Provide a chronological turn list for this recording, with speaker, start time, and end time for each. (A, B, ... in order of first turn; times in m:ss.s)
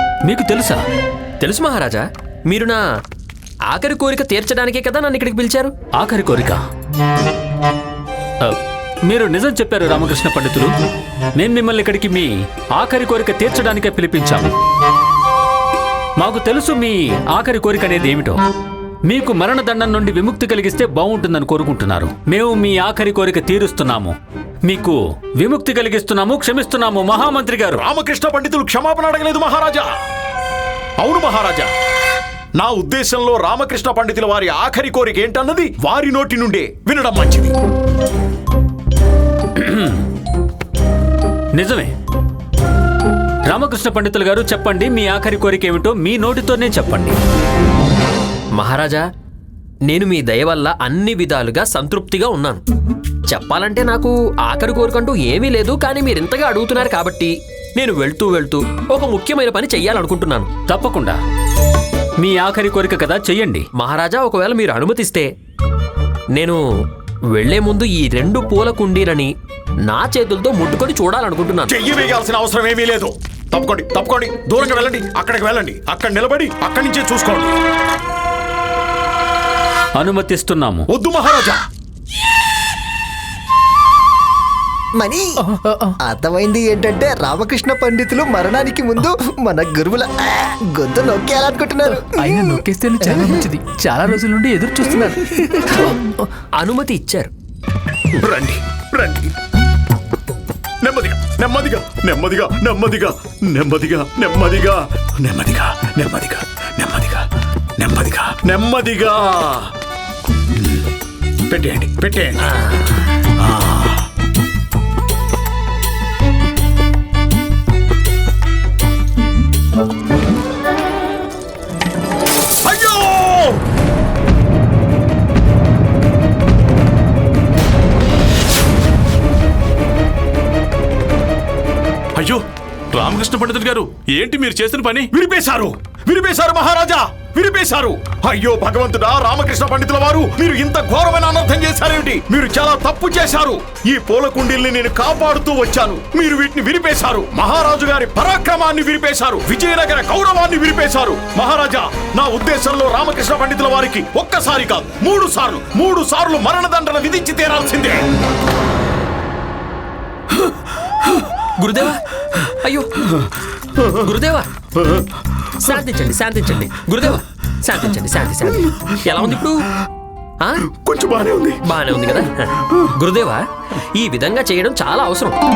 0:00.3-0:00.8 A
0:01.4-0:02.8 B
0:03.7-0:05.7 B
0:06.0-0:06.6 A
0:08.4-0:10.7 A
0:11.4-0:14.5 A
0:16.2-0:18.4 A
0:19.1-0:27.8 A
0:27.7-0:29.9 C
0:31.0-0:31.7 C
0:32.6-0:37.6 C
0:39.6-0:40.1 A
0:41.5-0:41.9 A
0:43.5-0:47.2 A
0:48.6-0:49.0 B
0:49.9-0:52.6 B
0:53.3-1:00.5 B
1:00.7-1:01.2 A
1:02.2-1:03.7 A
1:03.8-1:05.3 B
1:06.3-1:06.6 B
1:07.4-1:09.3 B
1:09.8-1:11.7 B
1:11.7-1:17.5 C
1:20.0-1:20.9 A
1:20.9-1:21.6 C
1:25.0-1:25.4 D
1:25.4-1:25.9 E
1:26.0-1:32.4 D
1:31.9-1:36.3 E
1:36.6-1:37.3 B
1:38.2-1:39.3 C
1:40.8-1:47.3 C
1:47.8-1:49.7 C
1:50.6-1:50.8 C
1:51.5-1:52.5 C
1:52.4-1:53.0 B
1:53.4-1:54.1 C
2:02.6-2:03.6 C
2:12.2-2:12.4 F
2:12.9-2:15.1 F
2:15.1-2:38.0 C
2:40.5-2:41.3 C
2:41.6-2:42.0 B
2:42.6-2:43.0 B
2:43.0-2:44.1 C
2:44.0-2:44.5 B
2:44.8-2:45.8 C
2:45.6-2:49.7 B
2:48.5-2:49.5 C
2:50.6-2:51.6 C
2:51.7-2:55.4 B